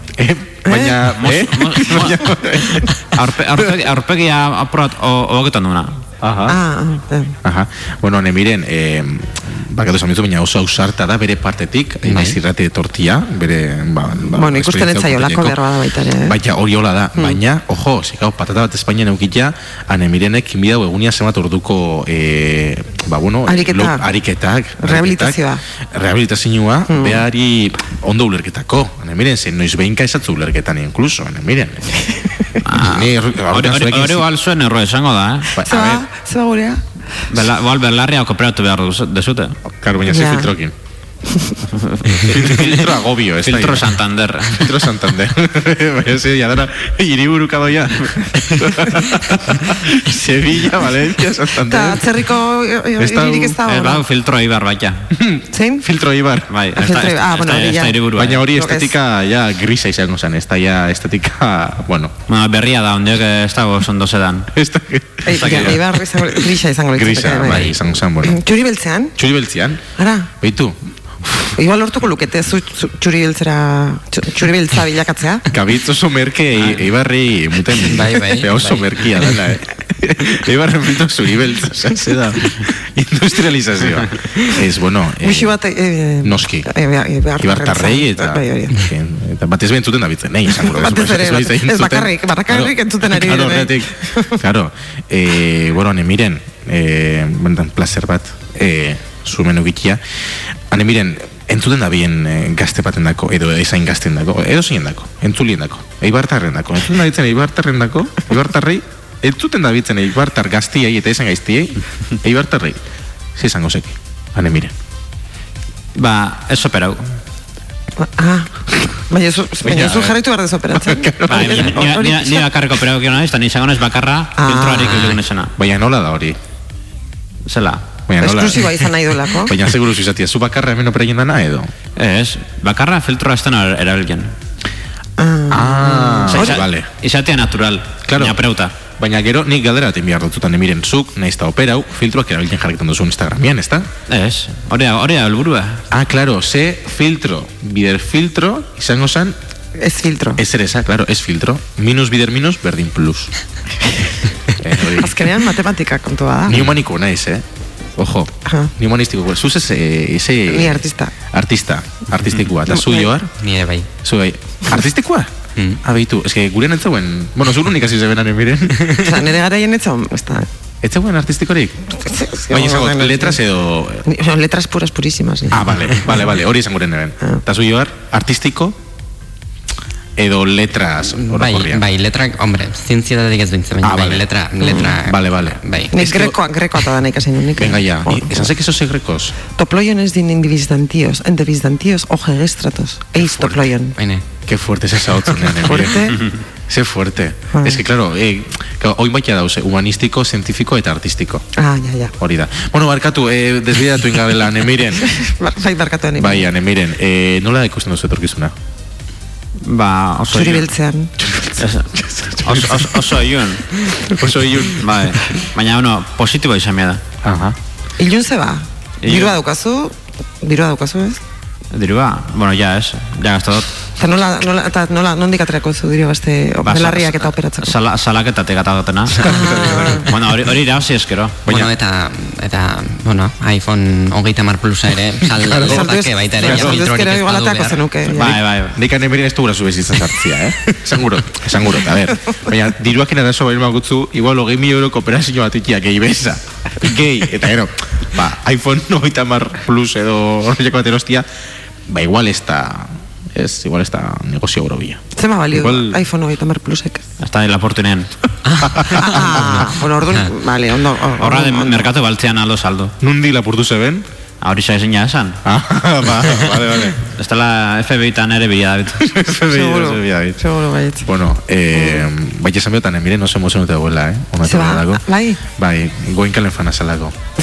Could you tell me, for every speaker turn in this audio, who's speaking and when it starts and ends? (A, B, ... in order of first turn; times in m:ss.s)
0:00.2-0:02.9 A
0:01.0-0:02.4 B
0:03.1-0:06.0 B
0:06.2-0:06.6 A
0:06.5-0:07.4 C
0:07.4-0:15.6 A
0:14.3-0:16.4 C
0:16.2-0:32.1 A
0:23.5-0:24.0 C
0:24.8-0:25.6 C
0:26.9-0:27.2 C
0:32.6-0:35.5 B
0:32.7-0:34.2 A
0:35.6-0:36.0 A
0:35.6-0:36.8 C
0:37.3-0:39.6 B
0:39.7-0:40.7 A
0:40.1-0:40.5 C
0:41.3-0:41.6 C
0:41.8-0:44.9 B
0:42.3-0:44.0 A
0:44.5-0:52.2 A
0:51.7-0:54.0 C
0:53.0-0:53.6 A
0:53.6-0:55.1 B
0:55.2-0:56.5 A
0:55.5-0:55.8 C
0:56.5-0:58.4 B
0:56.8-0:58.9 C
0:58.2-1:02.1 A
1:02.3-1:04.5 B
1:04.5-1:06.4 A
1:05.3-1:09.1 C
1:05.4-1:05.8 B
1:06.9-1:08.4 A
1:09.2-1:09.8 A
1:10.0-1:10.3 C
1:10.4-1:11.6 A
1:11.6-1:15.4 C
1:15.5-1:25.6 A
1:17.9-1:18.9 D
1:25.2-1:28.8 C
1:26.2-1:26.7 A
1:27.4-1:52.8 A
1:30.6-1:34.3 C
1:53.4-1:54.7 A
1:56.0-1:57.0 B
1:58.0-2:02.4 C
1:59.6-2:00.2 A
2:00.7-2:01.9 A
2:01.3-2:05.5 B
2:04.4-2:05.0 C
2:05.6-2:06.4 A
2:07.5-2:07.8 B
2:08.1-2:11.7 A
2:08.2-2:09.5 C
2:12.0-2:14.3 B
2:15.2-2:16.6 C
2:15.5-2:16.9 A
2:16.3-2:18.7 B
2:18.1-2:18.4 A
2:19.0-2:23.9 A
2:24.1-2:25.8 B
2:25.9-2:29.4 A
2:29.8-2:30.4 C
2:30.4-2:33.3 A
2:34.6-2:35.3 A
2:34.9-2:36.6 C
2:36.5-2:37.4 A
2:38.0-2:43.3 A
2:38.5-2:38.7 C
2:40.5-2:41.1 C
2:42.7-2:43.1 C
2:43.4-2:43.9 D
2:44.0-2:45.3 A
2:45.8-2:49.0 A
2:49.0-2:50.5 C
2:50.8-2:51.9 A
2:52.0-2:53.4 C
2:52.5-2:54.0 A
2:54.0-2:56.1 C
2:55.5-2:58.8 A
3:00.2-3:01.8 A
3:01.2-3:05.9 D
3:03.8-3:04.3 A
3:04.6-3:04.9 C
3:04.8-3:06.4 A
3:05.9-3:08.5 C
3:07.6-3:09.3 A
3:09.6-3:13.9 C
3:13.2-3:13.7 A
3:14.0-3:14.2 D
3:14.4-3:21.4 A
3:15.6-3:16.2 C
3:17.5-3:17.8 C
3:21.6-3:22.1 C
3:22.2-3:25.0 A
3:25.1-3:26.5 C
3:26.2-3:28.5 A
3:29.6-3:30.7 B
3:30.3-3:31.1 C
3:31.2-3:32.9 A
3:31.6-3:31.9 B
3:32.4-3:33.7 B
3:34.0-3:34.9 A
3:34.8-3:37.0 B
3:37.2-3:37.6 A
3:38.0-3:41.2 C
3:39.0-3:39.4 B
3:41.7-3:43.7 B
3:44.0-3:47.7 C
3:46.6-3:51.5 B
3:49.2-3:50.0 C
3:49.3-3:50.0 A
3:51.5-3:57.9 D
3:55.4-3:56.8 A
3:55.7-3:58.3 C
3:58.1-3:58.7 B
3:58.2-4:11.3 A
4:11.9-4:16.0 A
4:15.2-4:17.0 C
4:17.2-4:18.1 B
4:18.6-4:19.3 A
4:19.0-4:21.9 C
4:21.2-4:22.9 B
4:23.0-4:24.0 A
4:24.4-4:25.4 B
4:25.4-4:27.0 A
4:27.2-4:29.0 B
4:29.1-4:30.4 A
4:29.5-4:31.0 C
4:31.0-4:37.2 A
4:31.7-4:32.0 C
4:34.4-4:35.4 C